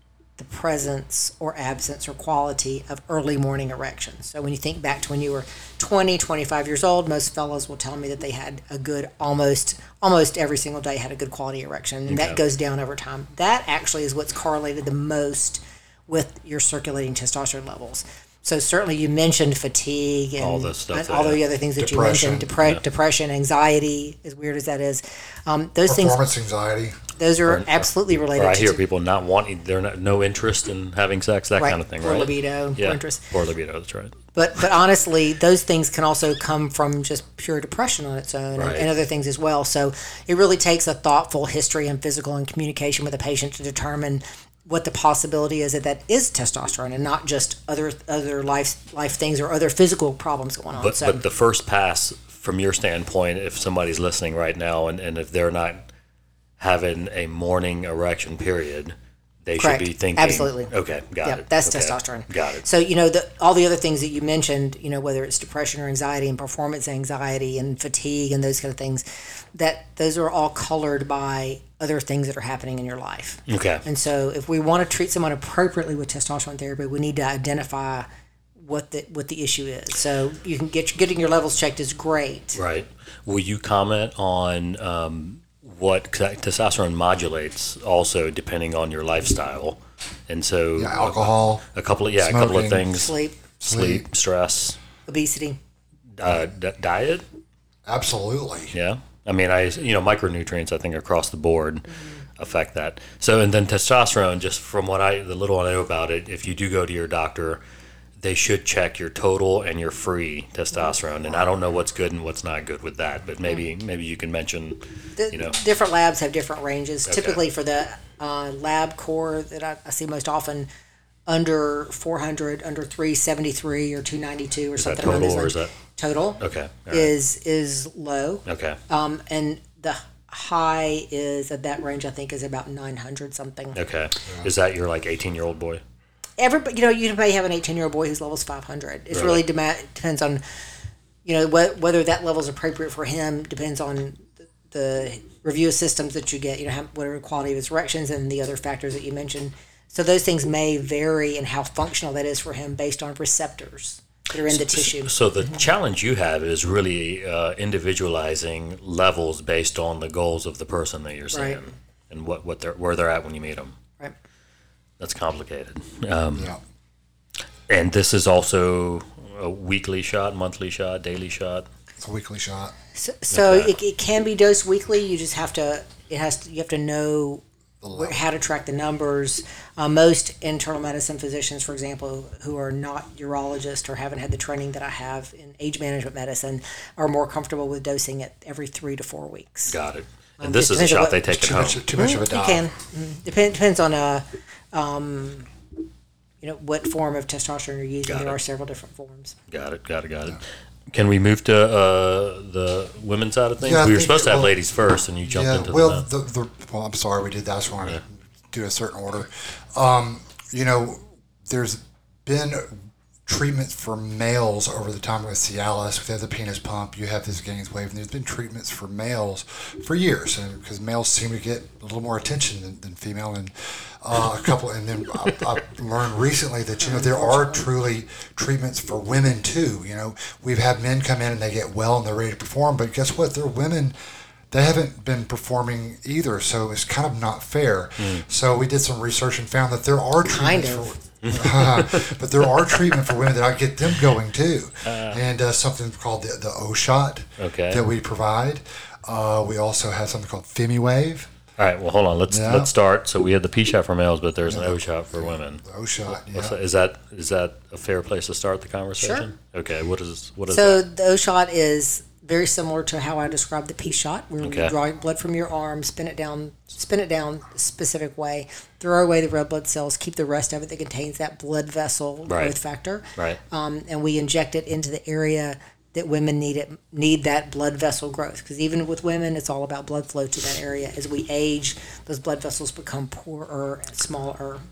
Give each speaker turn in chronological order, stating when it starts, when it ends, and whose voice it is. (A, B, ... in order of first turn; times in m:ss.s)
0:00.4-0:26.2 A
0:12.1-0:12.4 B
0:20.4-0:21.4 B
0:21.8-0:22.6 C
0:25.9-0:27.0 C
0:27.2-0:28.8 A
0:27.5-0:34.2 B
0:31.6-0:33.3 A
0:34.3-0:51.2 A
0:38.6-0:38.9 B
0:50.7-0:55.8 B
0:56.6-0:58.9 B
0:59.4-1:02.6 B
0:59.6-1:00.7 A
1:01.2-1:22.6 A
1:13.5-1:13.8 B
1:22.6-1:34.8 B
1:30.8-1:31.6 C
1:32.2-1:32.9 C
1:32.9-1:33.4 A
1:33.7-1:34.0 C
1:35.1-1:35.6 A
1:36.2-1:37.2 B
1:37.8-1:38.7 C
1:38.7-1:47.6 B
1:48.2-1:55.6 B
1:55.2-2:00.7 A
1:57.1-1:57.4 B
2:01.3-2:13.8 A
2:04.8-2:05.7 B
2:06.4-2:07.1 B
2:08.4-2:08.8 B
2:13.7-2:15.8 B
2:16.4-2:20.4 A
2:19.1-2:19.4 B
2:21.2-2:35.6 A
2:34.5-2:43.7 B
2:41.3-2:41.6 A
2:45.0-2:46.5 B
2:46.3-2:46.6 C
2:47.7-2:51.7 B
2:52.0-2:52.7 C
2:52.9-3:09.8 A
2:53.3-2:53.7 B
2:57.8-2:58.2 C
3:09.7-3:11.9 B
3:10.4-3:11.2 A
3:11.2-3:12.6 C
3:11.9-3:15.5 A
3:16.4-3:19.4 A
3:18.1-3:18.4 B
3:19.5-3:26.0 B
3:23.6-3:24.5 C
3:25.2-3:53.9 C
3:46.8-3:47.7 A
3:54.5-4:11.3 C
4:00.2-4:01.0 A
4:01.2-4:02.2 B
4:02.7-4:03.1 B
4:04.8-4:05.2 B
4:07.4-4:07.8 B
4:11.6-4:20.8 B
4:12.3-4:12.7 C
4:14.5-4:16.6 C
4:19.0-4:19.3 A
4:20.5-4:44.6 A
4:24.4-4:24.7 B
4:32.3-4:32.6 B